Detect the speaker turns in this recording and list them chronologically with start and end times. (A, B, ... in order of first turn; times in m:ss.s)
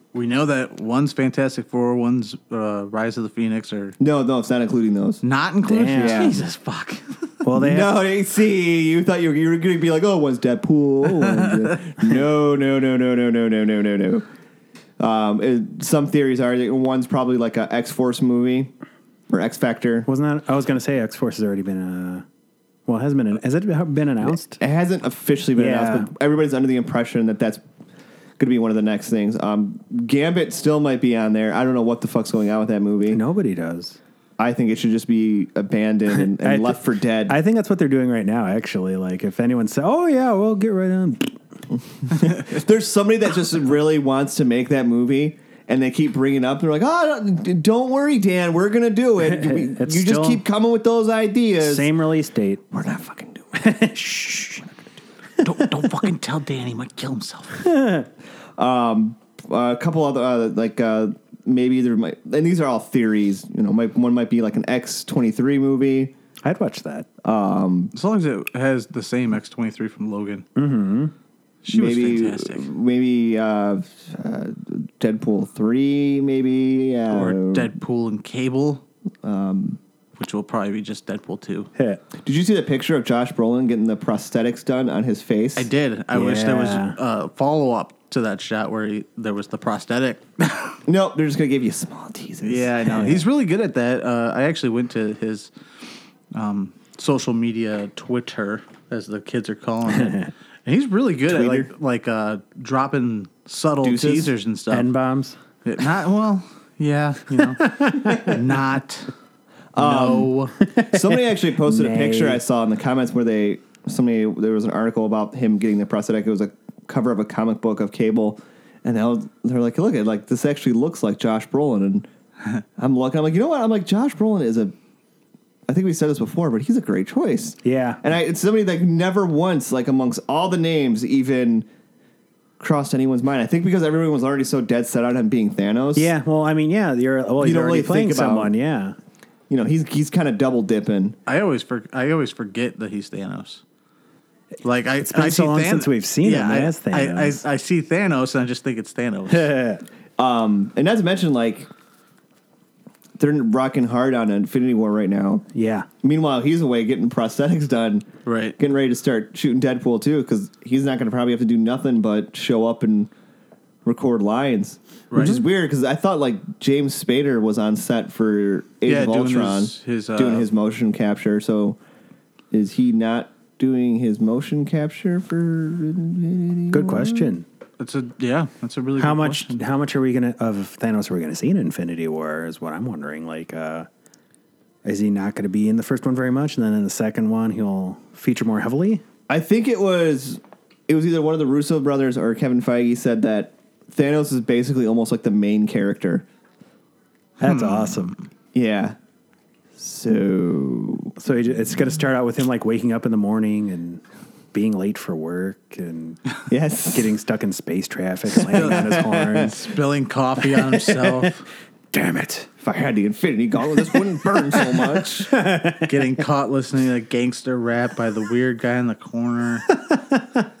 0:00.1-0:04.0 A
0:04.0-0:06.4 B
0:05.2-0:07.2 A
0:05.7-0:06.4 C
0:07.4-0:07.9 C
0:07.5-0:14.2 B
0:11.3-0:11.7 A
0:15.0-0:18.7 B
0:19.3-0:20.1 B
0:20.1-0:22.2 C
0:22.9-0:24.6 C
0:24.2-0:27.6 B
0:25.6-0:26.1 C
0:28.4-0:33.2 B
0:33.1-0:34.0 C
0:34.4-0:37.4 B
0:36.1-0:41.4 C
0:42.1-0:51.9 B
0:49.2-0:50.4 C
0:51.6-0:52.6 C
0:52.7-0:53.7 B
0:53.5-0:54.7 C
0:55.4-0:57.7 A
0:57.6-0:58.1 C
0:58.6-1:06.1 B
1:06.4-1:07.1 C
1:07.2-1:07.9 B
1:07.9-1:10.4 A
1:10.6-1:11.1 C
1:11.6-1:12.7 A
1:11.7-1:17.7 B
1:17.1-1:18.8 A
1:19.2-1:19.8 B
1:20.2-1:21.7 A
1:21.8-1:22.0 C
1:22.2-1:25.7 B
1:25.6-1:30.8 A
1:26.1-1:27.0 C
1:30.8-1:33.2 B
1:32.4-1:35.5 A
1:36.3-1:44.9 A
1:39.9-1:40.3 C
1:41.2-1:41.7 B
1:43.8-1:44.3 B
1:44.7-1:45.4 C
1:45.6-1:49.1 A
1:47.4-1:48.3 C
1:48.0-1:48.4 B
1:49.7-1:50.3 B
1:49.8-1:50.5 A
1:50.6-1:52.4 C
1:50.8-2:02.1 B
2:02.8-2:04.7 B
2:05.7-2:11.7 B
2:07.6-2:08.0 C
2:12.6-2:16.1 B
2:15.9-2:19.0 C
2:17.4-2:18.5 B
2:19.5-2:21.2 B
2:21.3-2:23.6 A
2:24.6-2:29.5 A
2:25.0-2:27.4 C
2:29.3-2:29.8 C
2:30.2-2:31.7 B
2:33.2-2:35.4 B
2:35.5-2:35.9 C
2:36.0-2:38.0 B
2:38.2-2:38.6 A
2:38.6-2:43.1 B
2:43.8-2:51.8 B
2:45.1-2:45.4 A
2:48.8-2:50.5 A
2:52.5-2:57.3 B
2:56.7-2:57.4 C
2:57.8-2:59.6 A
2:59.0-3:03.9 C
3:04.8-3:09.0 C
3:09.3-3:16.2 B
3:17.4-3:18.2 C
3:17.4-3:18.0 A
3:18.5-3:19.0 B
3:19.8-3:21.1 B
3:21.2-3:24.0 C
3:24.5-3:26.2 C
3:26.5-3:27.1 B
3:26.9-3:29.6 C
3:28.3-3:29.5 B
3:28.6-3:31.4 A
3:30.5-3:31.3 C
3:31.9-3:32.5 C
3:32.6-3:35.3 B
3:34.5-3:36.0 C
3:35.8-3:39.7 A
3:39.8-3:40.4 C